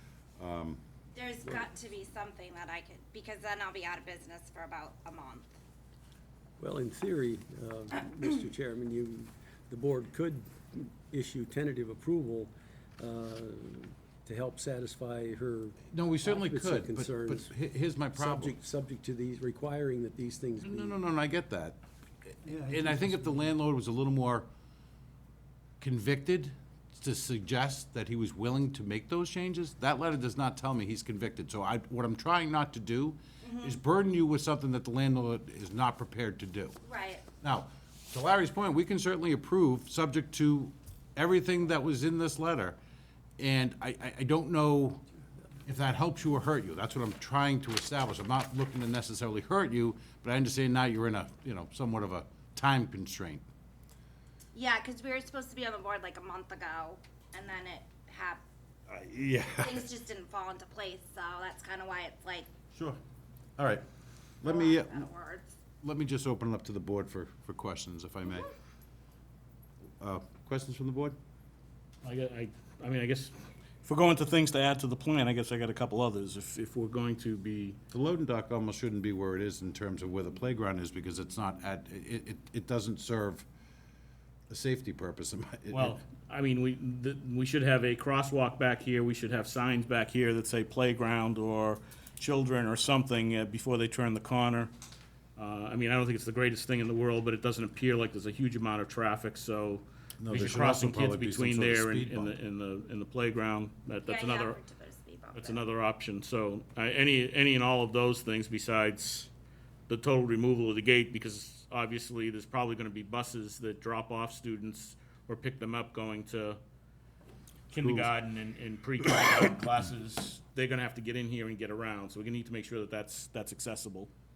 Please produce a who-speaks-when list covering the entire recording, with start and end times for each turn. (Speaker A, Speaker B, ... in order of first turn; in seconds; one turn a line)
Speaker A: 0.4-0.8
Speaker B: 1.1-5.5
Speaker C: 6.6-17.5
Speaker A: 15.9-18.5
Speaker C: 18.1-21.0
Speaker A: 20.6-24.5
Speaker A: 25.8-36.8
Speaker B: 33.4-33.8
Speaker B: 36.9-37.2
Speaker A: 37.4-42.8
Speaker A: 43.4-45.0
Speaker A: 45.6-53.5
Speaker B: 54.5-58.4
Speaker A: 58.9-59.9
Speaker B: 59.6-62.5
Speaker A: 62.7-63.0
Speaker A: 63.6-63.9
Speaker A: 64.4-65.1
Speaker B: 64.4-65.5
Speaker A: 65.8-68.5
Speaker A: 70.0-71.2
Speaker D: 72.0-77.8
Speaker A: 77.9-83.5
Speaker A: 84.5-86.0
Speaker D: 85.7-94.7
Speaker D: 95.3-104.6
Speaker A: 100.2-102.3
Speaker B: 104.0-105.6
Speaker D: 105.3-109.3
Speaker D: 109.9-116.6
Speaker D: 117.7-124.1
Speaker A: 117.8-118.1